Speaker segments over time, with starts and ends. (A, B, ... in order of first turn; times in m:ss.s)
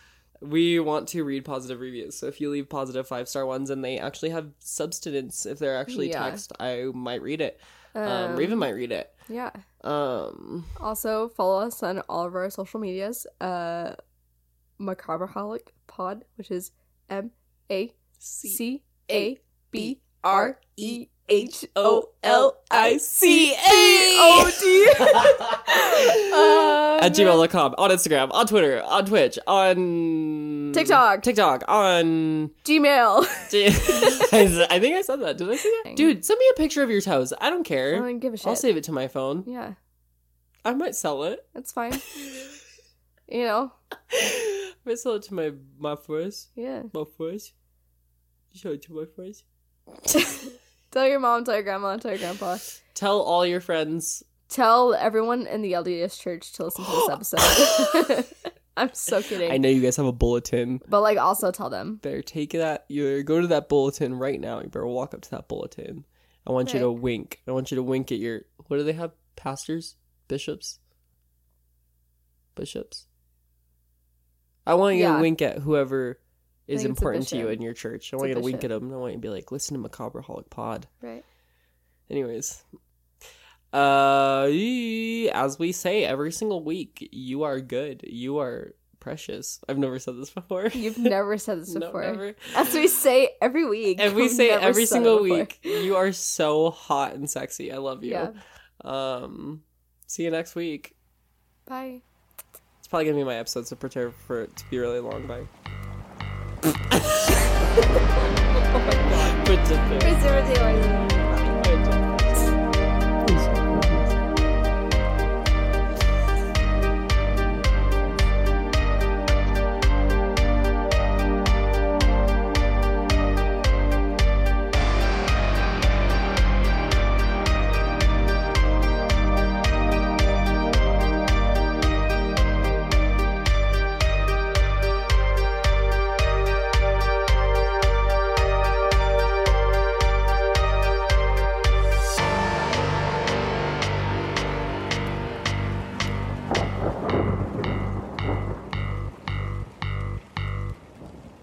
0:00.4-0:09.1 A
0:05.9-0:06.4 B
0:07.9-0:08.7 B
0:09.3-0:09.6 B
0:09.8-0:10.7 A
0:10.8-0:14.0 B
0:14.8-0:27.4 B
0:18.2-0:32.5 A
0:30.7-0:31.3 B
0:32.6-0:34.3 B
0:33.5-0:39.5 A
0:35.8-0:36.1 B
0:37.9-0:38.7 B
0:39.4-0:39.8 B
0:40.6-0:41.5 A
0:41.5-0:42.0 B
0:43.3-0:43.7 B
0:44.1-0:47.5 A
0:46.6-0:46.9 B
0:48.5-0:49.4 A
0:50.9-0:52.7 B
0:52.9-0:54.2 A
0:54.5-0:59.6 B
0:57.5-0:57.8 A
0:59.4-1:00.8 A
1:00.8-1:02.0 B
1:02.0-1:10.8 A
1:06.6-1:06.9 B
1:12.6-1:13.0 A
1:14.6-1:20.9 A
1:14.9-1:15.3 B
1:16.7-1:17.6 B
1:18.2-1:18.6 B
1:22.1-1:22.6 A
1:23.7-1:31.1 A
1:30.7-1:35.9 B
1:31.7-1:32.8 A
1:34.0-1:41.0 A
1:38.0-1:38.4 B
1:41.7-1:42.0 B
1:42.8-1:45.5 A
1:46.9-1:47.8 A
1:48.7-1:50.6 A
1:48.7-1:49.4 B
1:50.0-1:51.6 B
1:51.4-1:52.5 A
1:53.2-1:54.1 A